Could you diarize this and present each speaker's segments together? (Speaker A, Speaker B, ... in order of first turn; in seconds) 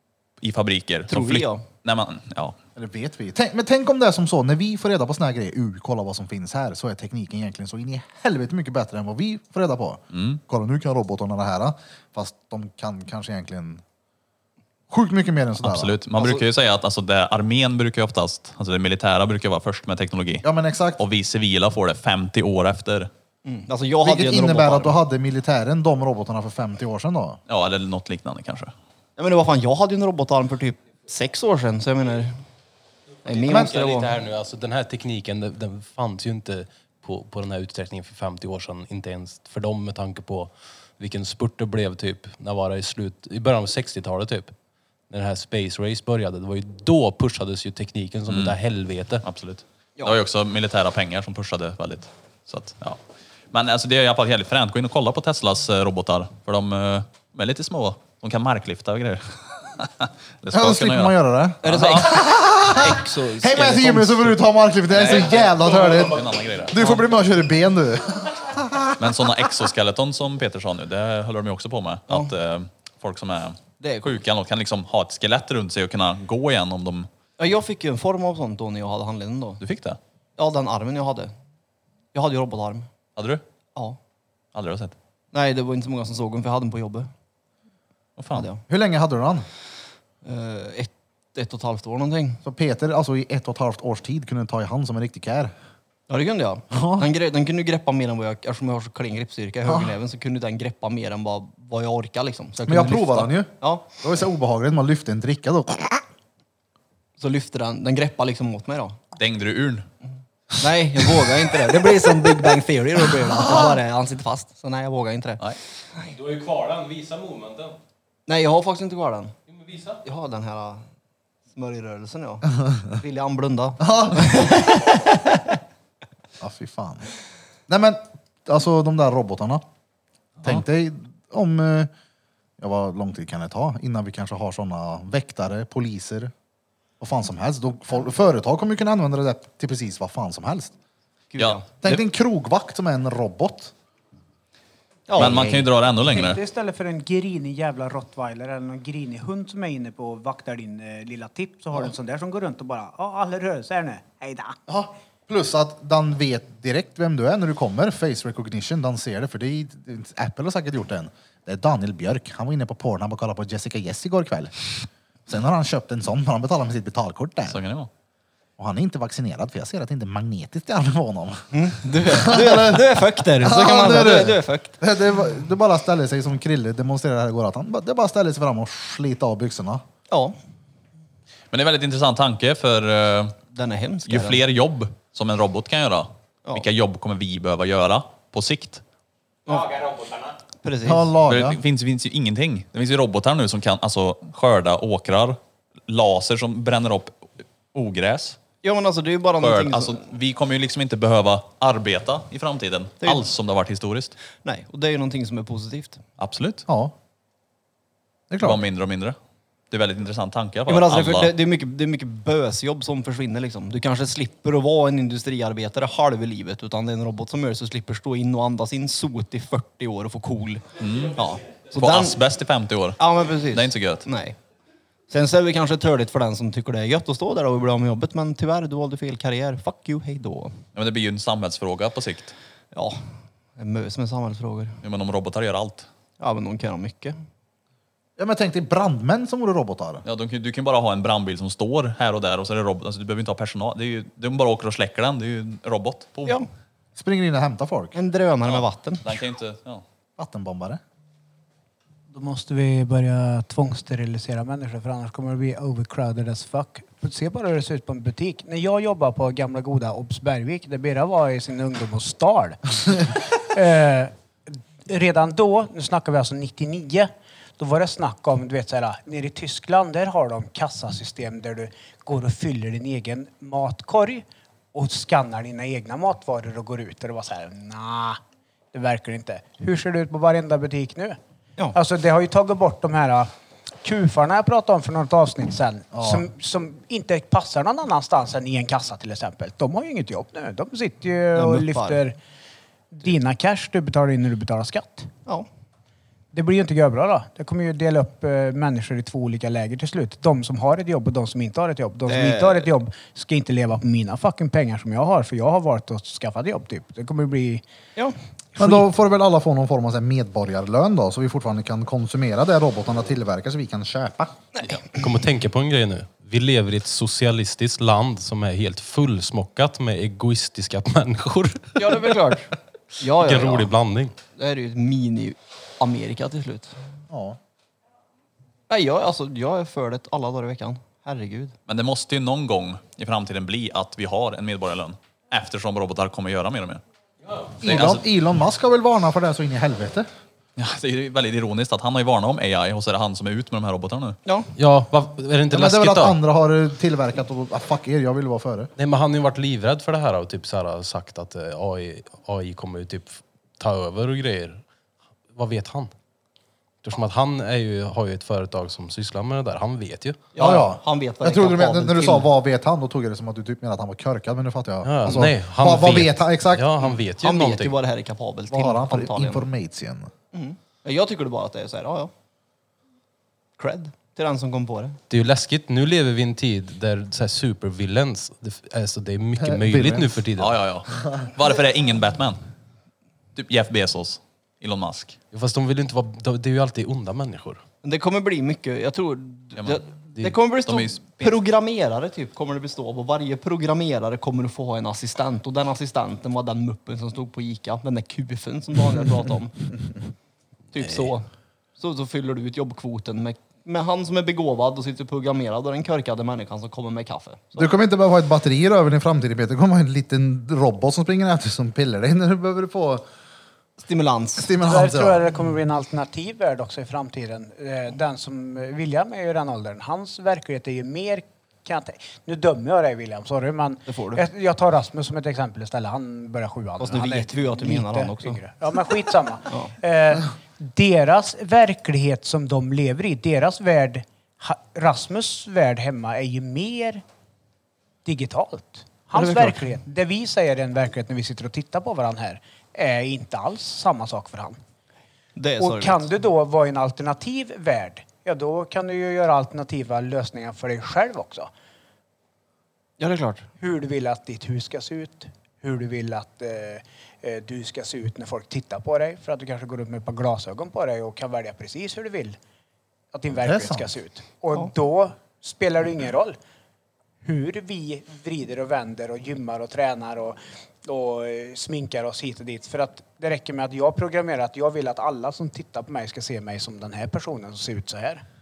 Speaker A: 0.4-2.5, 10.1-10.4, 15.6-20.4, 21.0-23.1, 27.5-28.7, 48.3-48.5, 49.2-53.0, 53.5-62.1, 64.9-66.8, 69.0-77.1, 79.6-80.0, 83.2-83.4, 84.5-84.9, 88.2-88.5, 109.2-109.9, 145.2-146.4, 167.5-167.9, 181.5-183.3, 184.1-188.8, 191.3-197.2, 197.7-198.4, 199.4-204.2, 206.2-206.6, 208.4-209.2, 209.7-211.3, 220.8-221.2, 221.7-224.1, 230.7-232.3, 234.8-235.9, 240.0-246.4, 248.5-249.8, 331.7-336.8, 337.6-338.0, 340.6-344.2, 380.4-382.4, 383.4-385.2, 390.6-391.3
Speaker B: 1.1-1.6, 16.2-16.4, 23.4-25.0, 29.2-32.3, 33.2-34.1, 61.6-64.5, 66.7-67.0, 73.8-74.2, 77.4-79.6, 80.4-81.3, 82.1-82.9, 85.3-87.1, 88.3-88.6, 90.2-92.4, 96.1-103.9, 107.2-109.0, 110.6-115.4, 118.3-119.3, 120.0-120.9, 121.5-125.6, 141.3-142.0, 145.1-145.7, 171.5-174.8, 180.1-180.3, 183.5-184.4, 189.4-189.7, 190.6-191.1, 198.6-200.0, 204.4-206.0, 210.7-222.2, 223.0-224.4, 225.1-230.6, 232.7-233.0, 233.6-234.8, 236.2-237.2, 247.9-249.2, 291.3-292.0, 302.1-302.7, 314.5-314.9, 321.8-323.7, 324.3-326.7, 328.7-331.5, 360.3-362.3, 366.8-369.5, 370.3-372.1, 373.6-375.0, 387.8-399.7, 400.7-407.7, 413.8-414.5, 423.9-424.2, 426.8-428.4, 439.1-439.6, 445.4-446.1, 453.0-453.5
Speaker C: 2.8-13.8, 14.9-16.0, 20.4-21.0, 24.0-27.4, 60.5-69.0, 88.7-89.5, 92.4-95.5, 96.7-97.1, 99.7-99.9, 102.7-106.0, 113.4-113.7, 123.8-124.5, 126.4-127.1, 127.7-129.6, 130.4-131.9, 132.6-136.3, 137.0-140.7, 141.8-143.7, 154.7-164.5, 165.3-167.6, 168.6-179.8, 190.8-191.6, 206.7-206.9, 208.3-208.6, 238.2-240.0, 246.9-248.0, 250.2-250.8, 285.9-286.3, 308.6-314.4, 327.1-327.4, 337.6-340.1, 345.5-348.7, 360.4-366.7, 368.5-370.1, 379.4-380.2, 407.6-413.0, 414.4-415.2, 463.3-463.9
Speaker D: 33.3-34.3, 116.1-117.8, 119.5-120.0, 189.5-190.3
Speaker E: 33.5-44.5, 45.1-49.2, 314.9-322.2, 323.1-324.1, 344.6-346.2, 348.8-354.6, 355.3-355.9, 356.8-360.3, 364.8-367.8, 375.1-380.6, 385.3-387.6
Speaker F: 146.0-154.6, 252.1-264.1, 264.8-278.2, 278.7-281.2, 281.7-283.3, 283.8-292.1, 292.9-295.1, 296.3-307.6, 308.6-308.8, 414.6-437.0, 438.0-444.6, 445.6-451.5, 453.6-462.4, 463.1-466.4, 467.2-478.2